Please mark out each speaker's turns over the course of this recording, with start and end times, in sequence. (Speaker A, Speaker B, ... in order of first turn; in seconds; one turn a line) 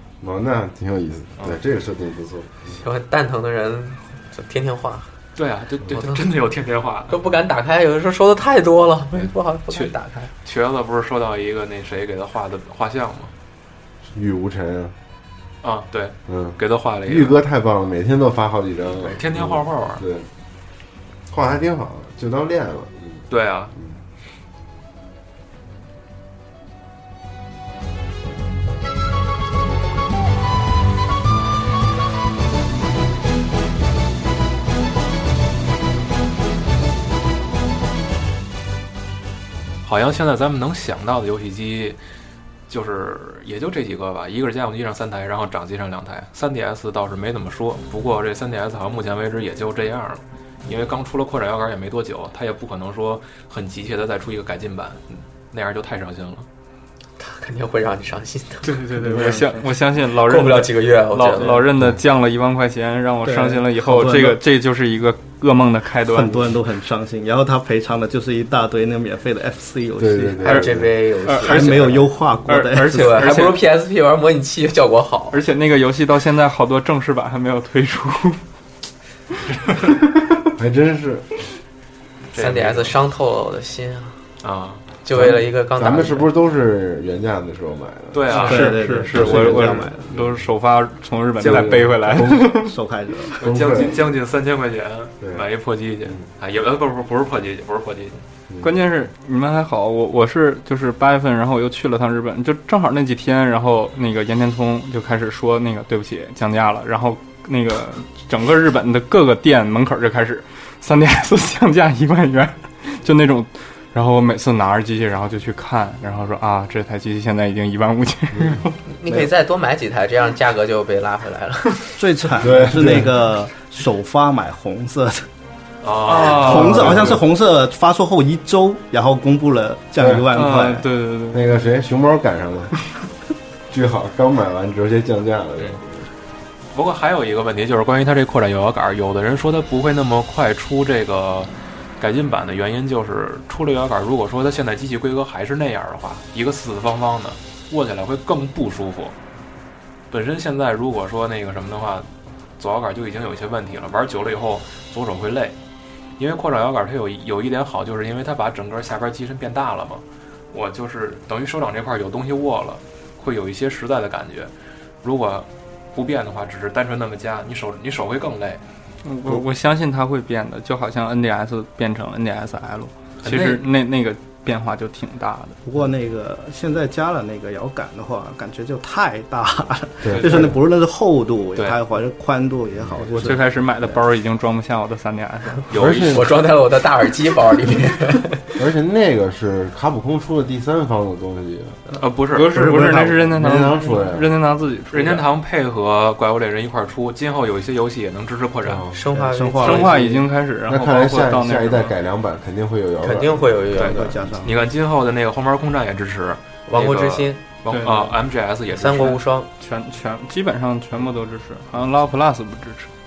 Speaker A: 0.2-2.8
Speaker B: 2.7-5.1
Speaker C: 5.3-7.2
Speaker B: 7.1-10.3
Speaker C: 9.2-13.3
Speaker A: 14.1-14.9
Speaker C: 15.6-17.4
Speaker A: 16.3-20.3
Speaker C: 19.0-20.0
Speaker A: 21.3-24.0
Speaker C: 23.3-23.7
Speaker C: 39.8-42.0
Speaker C: 42.7-56.5
Speaker B: 57.2-58.9
Speaker D: 58.6-66.4
Speaker E: 59.0-59.6
Speaker B: 60.0-61.6
Speaker E: 63.2-64.4
Speaker E: 66.0-70.6
Speaker A: 70.0-70.9
Speaker B: 70.4-72.1
Speaker D: 71.2-73.6
Speaker E: 71.4-73.3
Speaker B: 72.8-75.4
Speaker D: 75.3-78.4
Speaker C: 79.5-79.8
Speaker A: 80.5-81.3
Speaker C: 82.3-82.9
Speaker B: 82.3-84.2
Speaker C: 84.4-84.9
Speaker B: 85.0-86.3
Speaker A: 85.1-88.4
Speaker C: 88.1-88.8
Speaker D: 88.4-92.8
Speaker E: 88.4-90.1
Speaker A: 89.1-90.4
Speaker A: 91.4-92.5
Speaker E: 92.2-93.7
Speaker C: 93.4-98.2
Speaker A: 93.4-94.0
Speaker A: 95.2-95.5
Speaker D: 98.6-118.8
Speaker A: 118.3-118.6
Speaker B: 118.9-122.0
Speaker E: 122.0-125.3
Speaker A: 122.4-123.2
Speaker C: 125.8-126.7
Speaker D: 126.1-127.0
Speaker E: 126.1-130.9
Speaker A: 126.7-127.2
Speaker A: 130.0-130.2
Speaker D: 130.3-131.5
Speaker A: 131.3-132.7
Speaker A: 133.7-136.1
Speaker C: 136.7-149.2
Speaker C: 150.1-155.6
Speaker C: 156.2-168.6
Speaker D: 169.0-175.6
Speaker C: 173.2-173.7
Speaker E: 175.6-184.0
Speaker A: 180.0-180.6
Speaker C: 180.1-180.5
Speaker A: 182.8-183.3
Speaker D: 183.1-185.7
Speaker C: 185.7-186.2
Speaker A: 185.7-186.3
Speaker B: 186.1-188.4
Speaker A: 188.6-191.8
Speaker C: 192.0-192.5
Speaker D: 192.3-195.3
Speaker E: 192.5-193.3
Speaker A: 193.3-194.3
Speaker C: 194.9-198.8
Speaker A: 198.6-199.0
Speaker B: 198.9-200.0
Speaker E: 199.1-200.3
Speaker D: 199.6-201.9
Speaker A: 200.6-203.6
Speaker B: 203.0-204.2
Speaker C: 203.8-209.2
Speaker E: 203.8-204.5
Speaker B: 206.7-207.4
Speaker D: 207.7-208.2
Speaker B: 208.7-209.5
Speaker D: 209.0-212.9